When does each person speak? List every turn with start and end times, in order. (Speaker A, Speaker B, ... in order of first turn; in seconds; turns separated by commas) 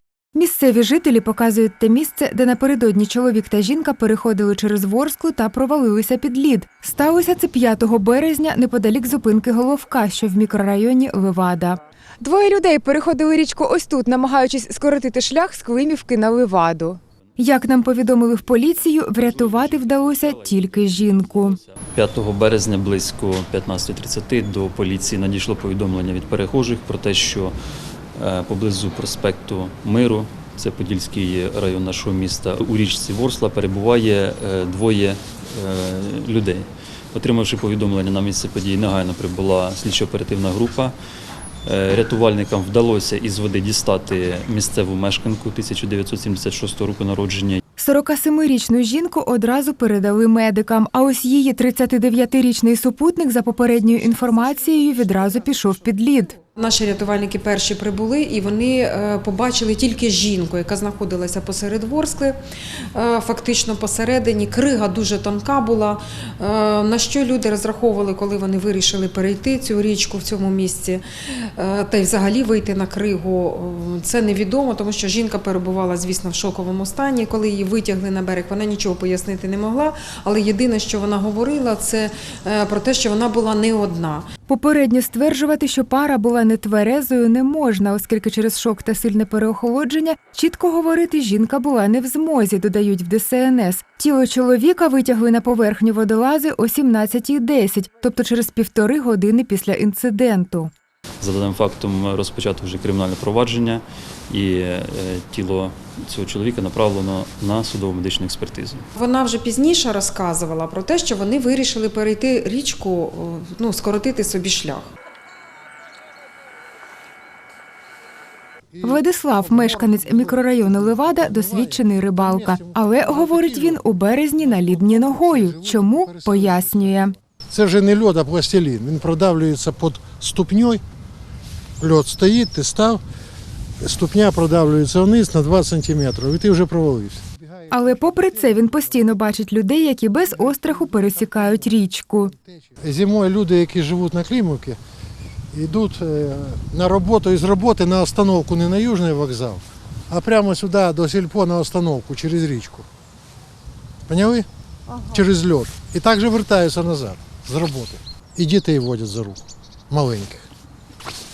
Speaker A: 0.3-21.6, Speaker B: 19.2-27.6, Speaker B: 28.2-41.0, Speaker B: 41.6-47.6, Speaker A: 47.8-56.4, Speaker C: 56.5-62.4, Speaker C: 63.0-84.3, Speaker A: 84.5-100.7, Speaker B: 101.2-108.8, Speaker C: 109.0-114.9, Speaker D: 118.7-130.8, Speaker A: 118.8-127.1, Speaker D: 131.8-133.0, Speaker D: 133.8-144.8, Speaker A: 137.7-142.3, Speaker D: 145.5-152.9, Speaker D: 154.1-154.5, Speaker D: 155.0-160.4